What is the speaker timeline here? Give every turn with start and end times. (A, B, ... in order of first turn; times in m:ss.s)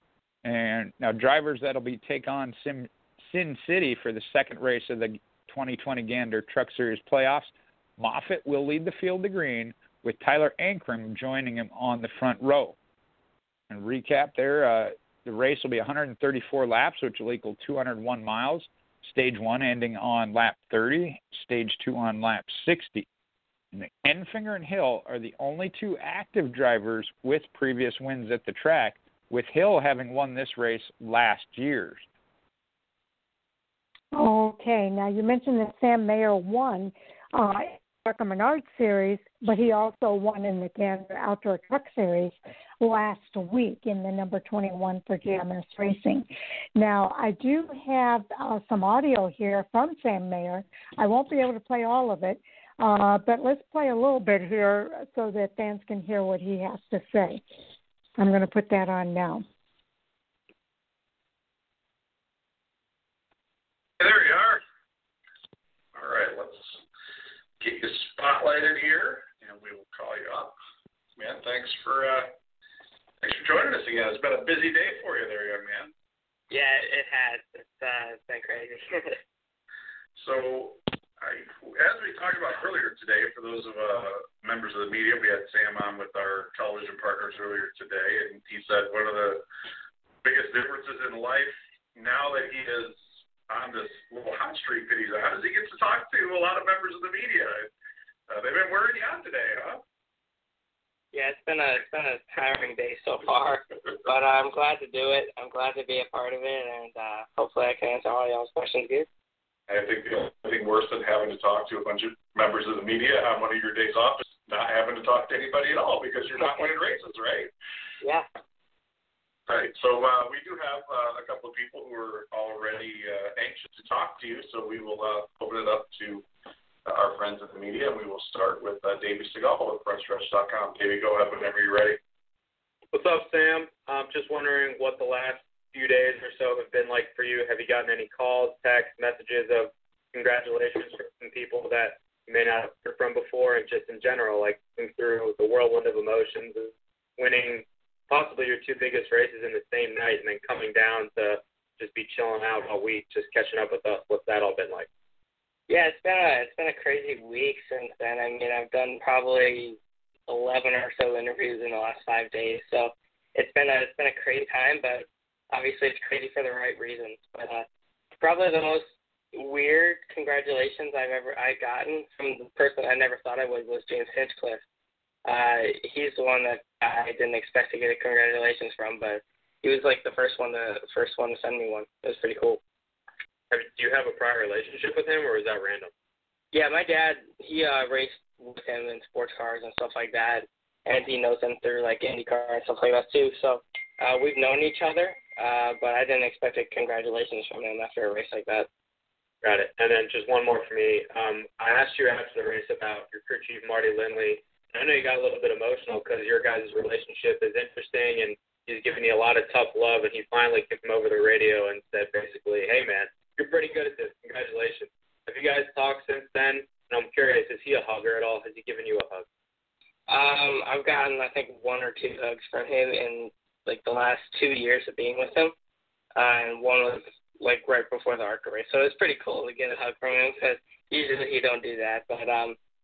0:00.4-0:12.8 A
0:13.7-0:23.1 A
0:23.7-0:32.0 A
0:34.1-0:57.4 B
0:58.2-0:59.4 B
1:04.0-1:04.6 C
1:05.9-1:06.8 C
1:07.6-1:10.6 C
1:11.2-1:12.3 C
1:13.2-1:15.9 C
1:16.5-1:19.2 D
1:20.2-1:29.4 C
1:30.2-1:37.7 C
1:38.3-1:39.8 C
1:41.1-1:49.1 D
1:49.7-1:57.5 C
1:59.5-2:06.3 C
2:06.8-2:12.0 C
2:12.9-2:34.9 E
2:35.7-2:47.7 D
2:48.2-2:54.6 D
2:55.2-3:02.6 D
3:03.5-3:05.9 E
3:06.5-3:18.7 D
3:19.4-3:39.2 E
3:40.1-3:45.5 D
3:46.1-3:52.6 D